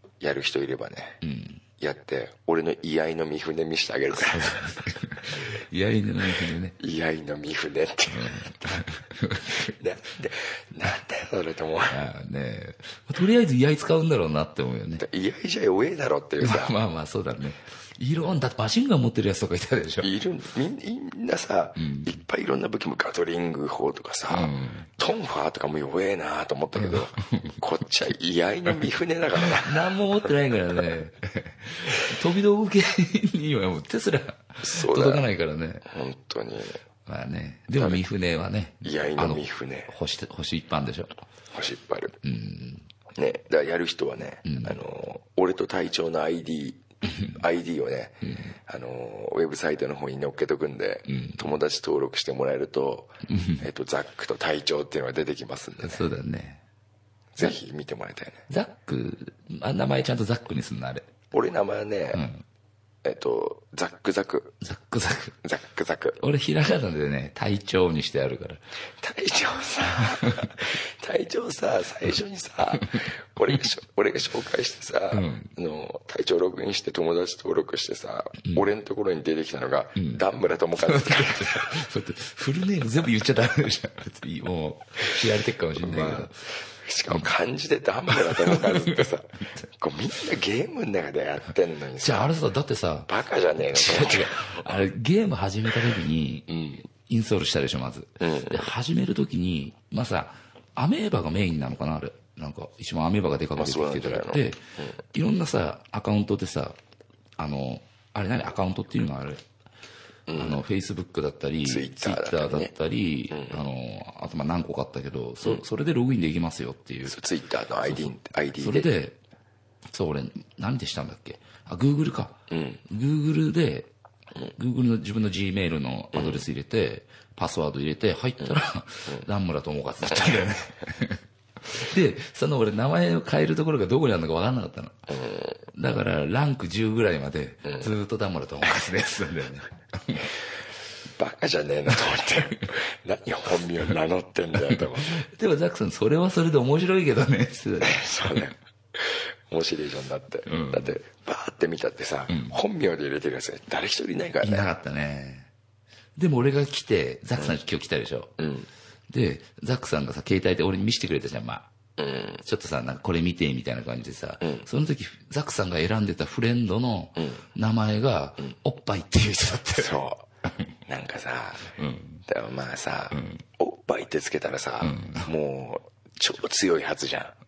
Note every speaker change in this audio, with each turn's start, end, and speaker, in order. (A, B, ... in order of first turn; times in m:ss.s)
0:00.2-0:01.2 A
0:01.2-0:01.6 B
0:01.8-0:04.8 A
0:04.1-0:06.8 B
0:06.8-0:08.8 A
0:08.1-0:09.7 B
0:09.5-0:12.0 A
0:11.9-0:15.0 B
0:15.0-0:16.8 A
0:16.4-0:20.1 B
0:20.0-0:29.9 A
0:21.8-0:22.1 B
0:24.3-0:24.9 B
0:26.8-0:27.6 B
0:29.4-0:35.8 B
0:34.6-0:35.2 A
0:35.8-0:36.8 A
0:37.1-0:41.1 B
0:38.8-0:39.9 A
0:41.5-0:42.2 A
0:42.2-0:42.8 B
0:43.1-0:56.0 A
0:44.4-0:44.8 B
0:48.2-0:48.5 B
0:51.1-0:51.4 B
0:53.2-0:53.6 B
0:55.8-0:56.6 B
0:57.3-0:58.4 A
0:58.5-1:01.1 B
1:01.3-1:02.2 A
1:02.1-1:02.4 B
1:03.0-1:04.5 A
1:04.6-1:05.4 B
1:05.4-1:06.2 A
1:06.2-1:08.6 B
1:09.0-1:21.7 A
1:15.1-1:15.5 B
1:20.0-1:20.2 B
1:20.8-1:26.4 B
1:25.8-1:32.4 A
1:28.1-1:29.1 B
1:32.0-1:36.5 B
1:33.1-1:34.7 A
1:36.5-1:36.8 A
1:37.1-1:44.6 B
1:38.2-1:38.6 A
1:43.6-1:44.9 A
1:45.1-1:46.8 B
1:47.4-1:49.4 B
1:50.3-1:50.6 A
1:50.3-1:57.2 B
1:51.6-1:52.7 A
1:53.3-1:53.6 A
1:57.0-1:58.9 A
1:57.9-1:59.2 B
1:59.9-2:03.9 B
2:02.5-2:02.8 A
2:04.5-2:15.2 B
2:06.1-2:06.4 A
2:10.1-2:10.4 A
2:15.1-2:15.6 A
2:15.7-2:20.3 B
2:17.6-2:17.9 A
2:21.2-2:25.2 A
2:24.7-2:28.5 B
2:27.8-2:34.7 A
2:30.5-2:31.0 B
2:32.3-2:32.6 B
2:34.4-2:35.5 B
2:36.2-2:38.3 B
2:38.4-2:38.7 A
2:39.1-2:41.7 B
2:42.0-2:42.4 A
2:42.4-2:50.0 B
2:44.4-2:44.7 A
2:47.2-2:47.4 A
2:49.7-2:50.2 A
2:50.9-2:51.7 A
2:51.8-2:52.2 B
2:52.3-2:57.3 A
2:53.1-2:53.4 B
2:54.8-2:55.3 B